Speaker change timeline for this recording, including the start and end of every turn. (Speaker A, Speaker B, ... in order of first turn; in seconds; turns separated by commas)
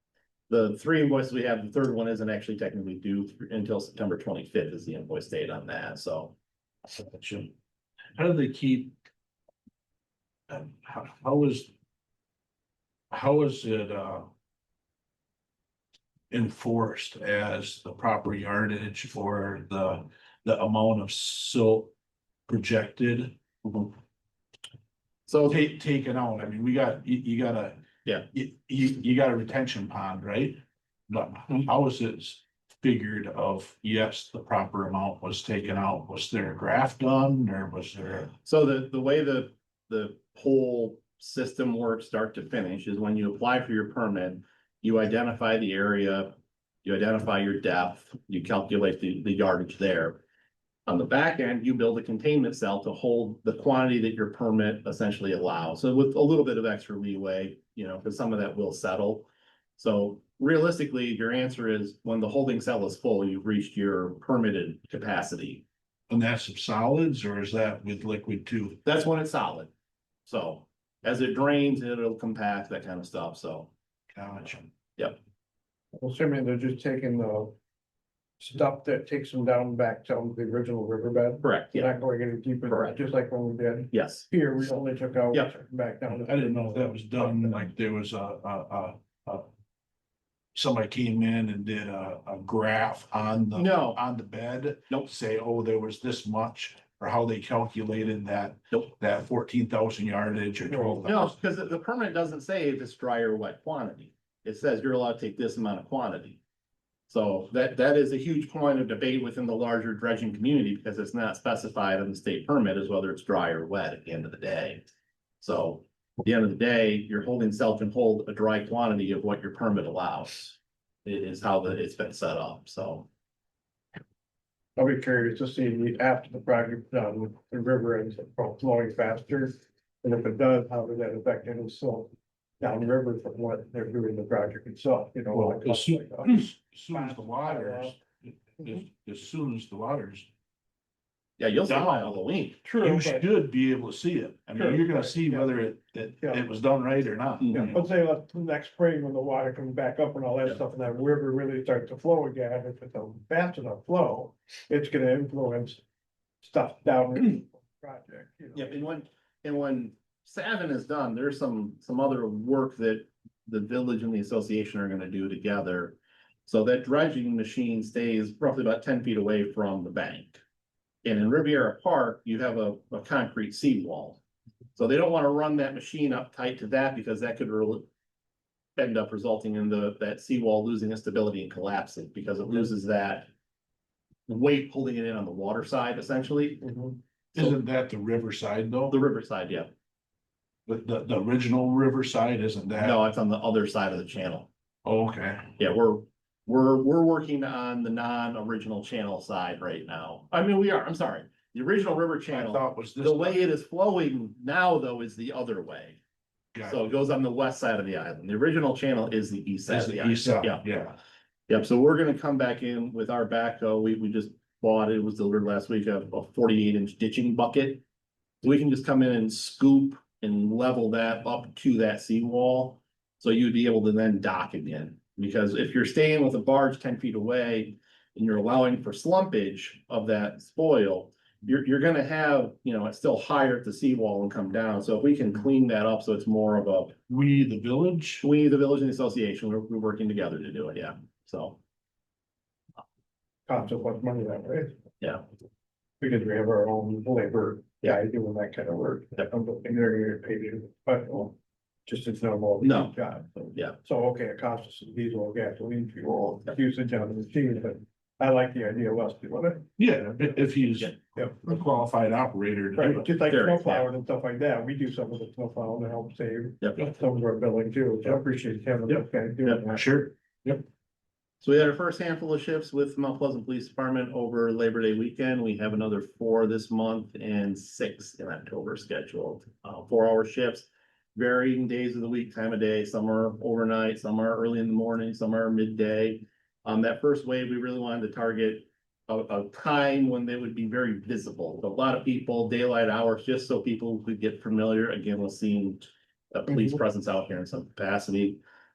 Speaker A: 0.5-6.3, Speaker B: 6.9-7.5, Speaker B: 8.2-8.9, Speaker B: 10.5-11.7, Speaker B: 13.1-14.3, Speaker B: 16.3-21.9, Speaker B: 22.5-23.4, Speaker A: 23.6-23.9, Speaker A: 25.3-25.6, Speaker B: 25.5-38.3, Speaker A: 38.3-50.2, Speaker A: 50.9-65.6, Speaker B: 66.1-68.8, Speaker A: 68.8-69.7, Speaker A: 70.2-73.7, Speaker B: 74.1-74.7, Speaker C: 76.0-77.5, Speaker C: 78.4-87.6, Speaker A: 81.4-81.9, Speaker A: 82.7-83.0, Speaker A: 83.9-84.3, Speaker B: 86.1-89.5, Speaker B: 90.5-101.3, Speaker A: 93.5-94.0, Speaker C: 100.7-101.0, Speaker A: 101.0-106.4, Speaker A: 107.1-114.8, Speaker A: 115.4-123.1, Speaker C: 124.8-137.9, Speaker B: 135.3-140.3, Speaker A: 141.4-142.6, Speaker B: 141.7-147.8, Speaker C: 142.6-143.2, Speaker C: 144.5-145.5, Speaker C: 146.2-146.5, Speaker A: 147.4-147.8, Speaker C: 147.5-155.8, Speaker C: 156.4-158.8, Speaker A: 158.5-170.4, Speaker A: 171.0-174.2, Speaker A: 174.7-177.9, Speaker A: 178.8-183.3, Speaker A: 184.3-187.5, Speaker B: 187.3-189.0, Speaker A: 188.9-189.7, Speaker B: 190.7-193.0, Speaker A: 192.8-194.5, Speaker B: 194.8-195.5, Speaker A: 195.6-206.0, Speaker B: 202.3-203.4, Speaker B: 206.5-206.8, Speaker A: 206.6-210.6, Speaker B: 209.7-211.0, Speaker A: 211.5-217.8, Speaker A: 218.4-236.9, Speaker B: 237.1-238.2, Speaker A: 238.2-241.6, Speaker C: 243.5-244.8, Speaker A: 245.0-245.2, Speaker C: 246.0-259.7, Speaker A: 252.6-252.9, Speaker B: 259.8-263.1, Speaker C: 262.8-269.9, Speaker A: 263.3-263.9, Speaker A: 266.6-266.9, Speaker B: 269.7-270.6, Speaker A: 271.4-298.4, Speaker C: 296.5-296.8